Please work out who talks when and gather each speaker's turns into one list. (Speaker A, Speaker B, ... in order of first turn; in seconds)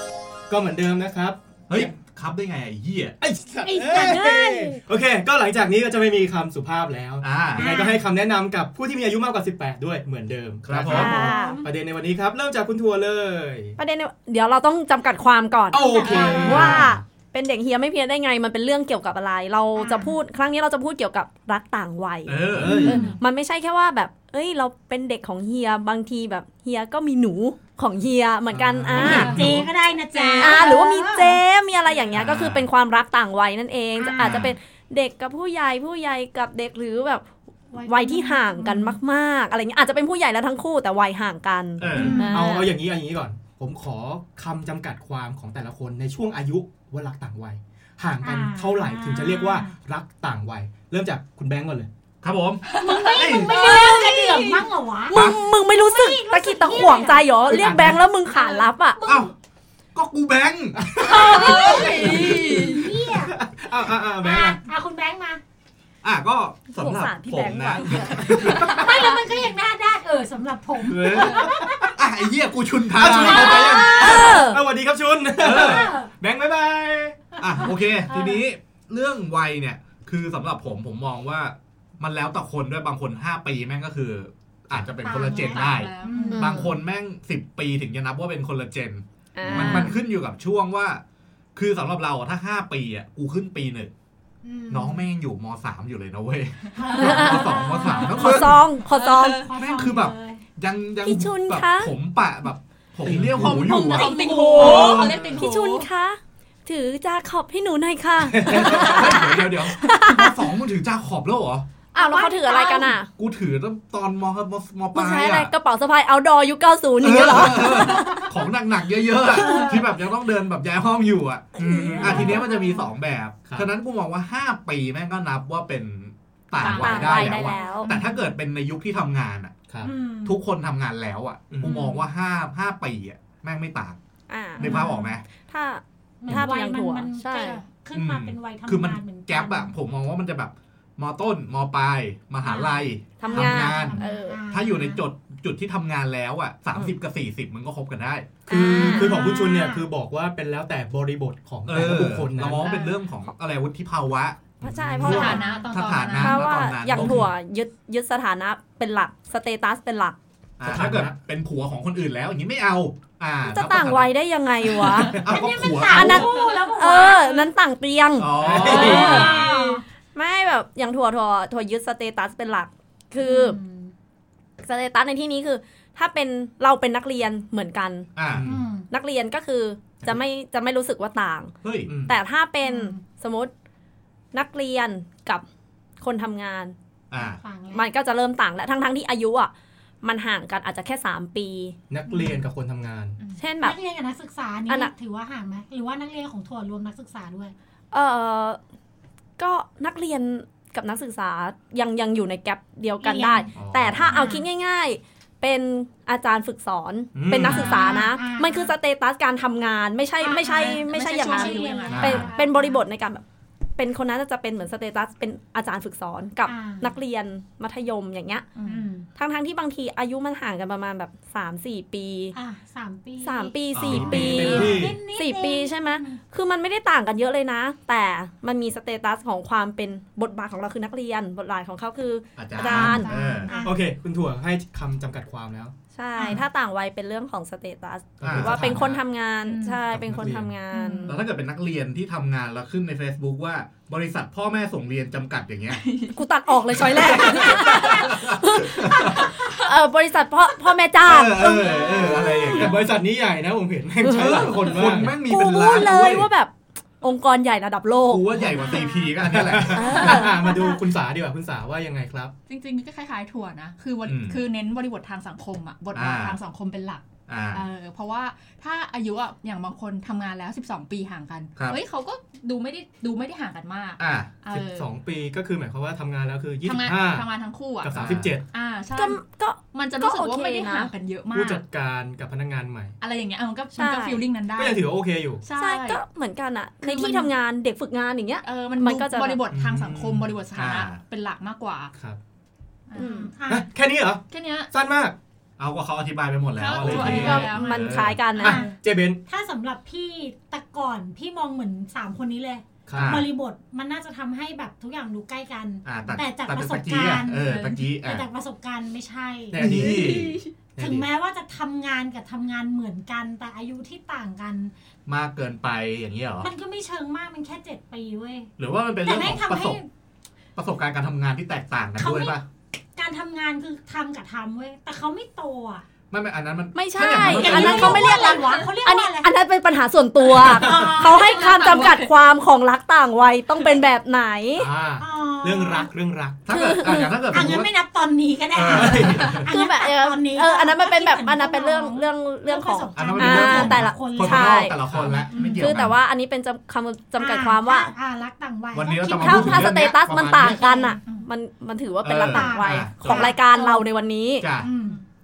Speaker A: 0.5-1.9, 3.2-13.8, 15.7-16.9, 22.5-23.1, 28.5-29.7, 41.9-51.9, 57.5-58.0, 60.8-64.6, 68.4-68.8, 70.8-71.9, 72.9-77.7, 103.0-103.7, 108.2-109.3, 121.6-122.4, 123.5-123.7, 126.6-127.1, 127.9-128.2, 129.7-129.9, 131.5-131.9, 148.5-152.7, 154.6-155.4, 156.9-157.3, 160.6-161.2, 168.4-169.5, 178.3-178.7, 181.9-182.2, 191.9-193.2, 207.1-207.8, 223.9-225.0, 233.6-235.7, 238.2-239.0, 239.9-240.5, 252.5-255.2, 259.1-262.3, 274.5-277.3, 277.8-278.4, 281.3-282.9, 284.6-285.4, 289.5-290.3, 293.5-295.1, 296.8-297.2, 298.4-299.2, 302.9-303.3, 309.5-311.1, 334.6-336.4, 338.7-339.5, 344.9-345.2
Speaker B: 1.7-3.2, 7.2-7.7, 10.6-11.1, 16.4-17.0, 22.2-23.0, 28.9-29.6, 32.1-32.6, 34.2-34.5, 41.8-42.2, 52.2-53.6, 55.1-55.4, 59.0-59.3, 59.9-61.5, 66.0-68.8, 70.9-71.2, 71.9-74.2, 75.4-75.9, 77.4-91.0, 91.5-93.9, 94.7-98.6, 99.5-105.3, 108.5-111.7, 113.2-115.5, 117.0-129.5, 130.2-134.0, 134.6-135.2, 137.9-148.4, 151.6-157.3, 160.6-164.1, 165.2-166.3, 168.2-169.5, 178.2-178.6, 181.6-181.9, 187.1-187.4, 203.5-204.2, 211.9-212.3, 223.7-224.9, 232.4-233.5, 238.2-239.0, 241.1-245.8, 247.0-249.3, 251.0-252.8, 254.0-256.3, 258.1-259.9, 264.0-264.4, 265.9-266.4, 267.3-267.6, 274.0-274.3, 277.9-278.4, 290.5-291.0, 295.6-298.2, 302.9-303.3, 305.8-308.3, 309.6-310.4, 315.1-316.5, 318.6-319.8, 320.6-322.4, 326.1-328.2, 336.4-337.7, 338.5-339.5, 342.9-346.0, 348.7-350.6, 352.0-353.3, 354.4-354.7
Speaker C: 3.6-4.8, 7.5-8.0, 10.8-11.7, 15.7-16.8, 19.8-20.1, 22.7-23.1, 29.0-31.4, 34.0-34.5, 37.7-39.0, 41.9-42.5, 48.2-49.7, 52.7-57.8, 58.3-59.3, 61.1-63.3, 64.2-65.4, 68.3-71.9, 73.2-74.5, 75.4-76.1, 78.1-78.4, 85.0-86.5, 89.4-89.9, 94.4-95.1, 96.8-98.6, 99.3-100.4, 103.8-105.1, 111.9-113.0, 119.4-119.8, 121.6-122.8, 126.9-128.0, 129.8-130.4, 134.6-135.1, 136.2-139.7, 142.4-145.0, 148.7-149.9, 155.2-155.7, 165.1-167.5, 168.6-169.8, 173.2-173.9, 178.4-178.9, 182.6-183.0, 187.1-187.8, 193.6-197.5, 203.0-203.5, 204.1-204.4, 207.4-208.7, 210.2-212.8, 216.4-216.9, 218.6-219.1, 222.3-226.2, 233.3-233.8, 236.2-236.4, 240.7-241.2, 258.6-259.1, 293.0-293.7, 298.4-309.6, 310.8-314.7, 316.4-319.9, 321.9-322.4, 322.9-325.8, 327.0-329.3, 330.3-331.7, 335.0-335.9, 337.2-345.7, 347.2-351.0, 352.2-353.9, 354.6-355.0
Speaker D: 3.9-4.3, 10.8-11.6, 13.8-29.3, 30.3-37.3, 37.8-42.7, 53.7-54.4, 55.1-59.0, 66.7-68.6, 73.1-74.6, 86.2-86.7, 89.3-89.9, 97.0-99.5, 101.0-101.9, 103.9-110.5, 111.9-113.1, 114.9-118.3, 126.6-127.9, 134.3-134.8, 135.3-137.6, 143.2-144.4, 148.5-149.2, 154.6-155.4, 156.2-160.2, 163.5-165.2, 165.9-169.6, 170.1-173.6, 174.6-178.1, 178.9-181.5, 182.1-183.5, 184.3-185.4, 186.0-186.7, 187.7-189.5, 190.0-191.8, 193.4-193.8, 194.7-194.9, 197.9-198.6, 199.4-213.2, 213.8-218.4, 219.2-222.3, 223.2-233.1, 235.9-241.1, 246.1-252.7, 254.0-258.4, 259.7-260.6, 278.9-280.9, 283.7-284.2, 285.6-289.4, 292.9-293.3, 296.9-298.6, 326.7-334.7, 336.5-337.1, 339.5-344.8, 345.6-347.9, 349.1-354.4
Speaker E: 16.0-16.7, 52.7-54.7, 61.0-62.8, 85.1-86.4, 97.9-98.3, 98.8-99.5, 103.3-105.9, 152.6-153.0, 155.0-156.5, 168.7-169.4, 210.5-212.2, 218.5-218.9, 232.7-233.6, 239.4-239.8, 245.7-247.7, 249.2-249.6, 262.5-274.9, 276.6-278.0, 278.5-279.2, 279.7-281.6, 283.0-284.9, 285.4-286.0, 286.8-287.3, 288.4-291.9, 292.9-293.2, 294.3-294.7, 296.5-298.7, 307.4-307.8, 309.6-310.5, 330.8-332.1, 354.6-355.0